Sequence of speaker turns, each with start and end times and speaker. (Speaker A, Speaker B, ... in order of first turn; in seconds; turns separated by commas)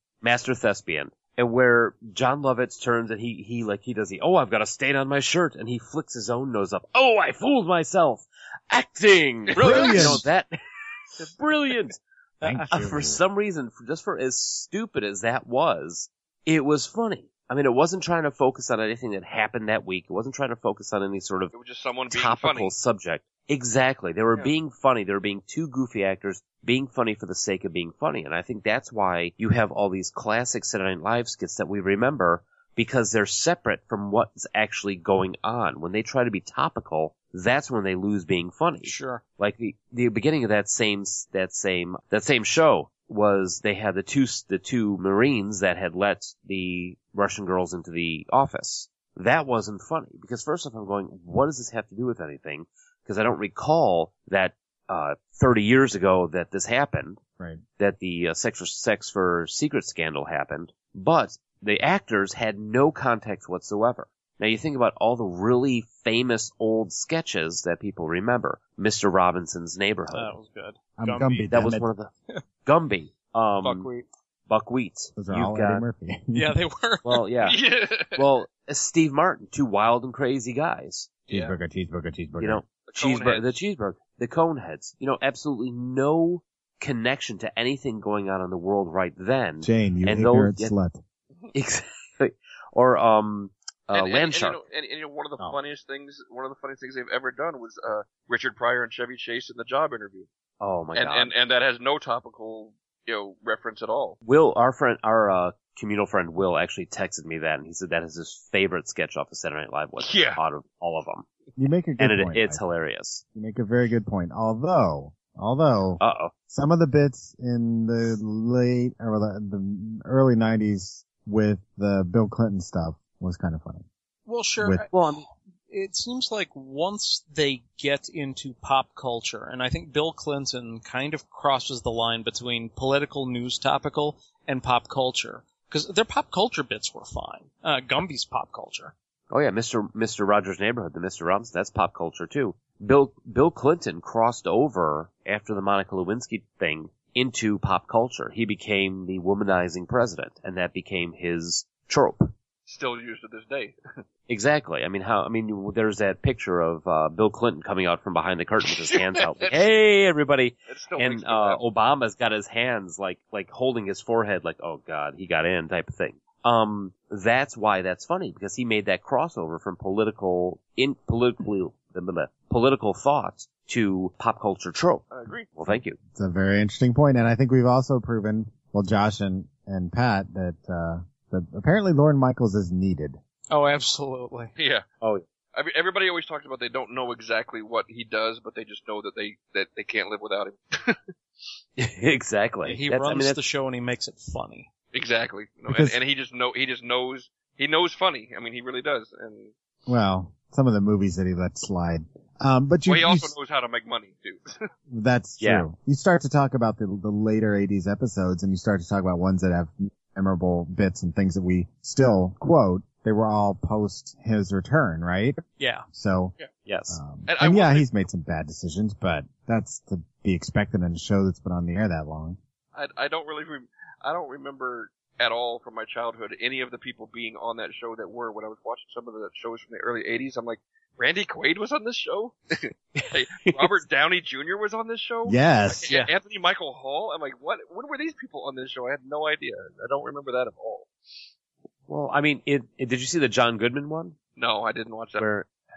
Speaker A: 0.2-10.5, Speaker B: 9.5-10.2, Speaker C: 9.6-10.3, Speaker A: 11.2-12.0, Speaker D: 12.4-13.0, Speaker C: 12.4-13.2, Speaker A: 12.7-21.5, Speaker B: 21.5-22.7, Speaker A: 22.1-57.2, Speaker D: 38.8-39.2, Speaker A: 57.8-70.3, Speaker D: 70.1-71.5, Speaker C: 71.0-71.9, Speaker A: 71.5-72.1, Speaker A: 72.7-73.9, Speaker D: 73.6-74.1, Speaker A: 74.5-75.9, Speaker C: 75.2-76.6, Speaker D: 76.3-77.2, Speaker A: 77.0-77.6, Speaker B: 77.4-78.2, Speaker A: 78.2-81.2, Speaker B: 81.3-81.6, Speaker C: 81.3-82.6, Speaker A: 82.4-90.7, Speaker B: 82.9-83.5, Speaker C: 89.6-91.0, Speaker A: 91.5-94.6, Speaker B: 93.9-100.3, Speaker A: 100.6-101.3, Speaker B: 101.0-104.2, Speaker A: 104.2-111.3, Speaker B: 110.0-110.4, Speaker C: 111.6-112.6, Speaker A: 112.0-113.2, Speaker C: 113.3-123.9, Speaker A: 116.0-116.3, Speaker D: 124.3-138.9, Speaker C: 124.6-124.9, Speaker A: 124.9-125.2, Speaker A: 139.3-152.3, Speaker B: 152.7-153.8, Speaker A: 154.3-176.0, Speaker B: 158.9-159.7, Speaker B: 160.7-161.6, Speaker B: 175.1-175.5, Speaker C: 176.2-183.2, Speaker D: 183.5-184.6, Speaker B: 184.6-184.8, Speaker B: 185.5-191.1, Speaker A: 191.8-193.4, Speaker D: 192.7-194.7, Speaker B: 194.9-199.5, Speaker C: 195.7-196.0, Speaker C: 199.9-203.3, Speaker B: 202.9-204.7, Speaker C: 204.9-215.4, Speaker A: 205.4-205.7, Speaker D: 215.6-215.9, Speaker C: 215.9-216.3, Speaker A: 216.7-217.0, Speaker C: 216.9-222.4, Speaker B: 217.3-217.9, Speaker B: 222.7-240.9, Speaker A: 233.4-233.7, Speaker C: 235.3-235.9, Speaker A: 241.9-244.2, Speaker B: 244.4-245.3, Speaker A: 245.2-245.5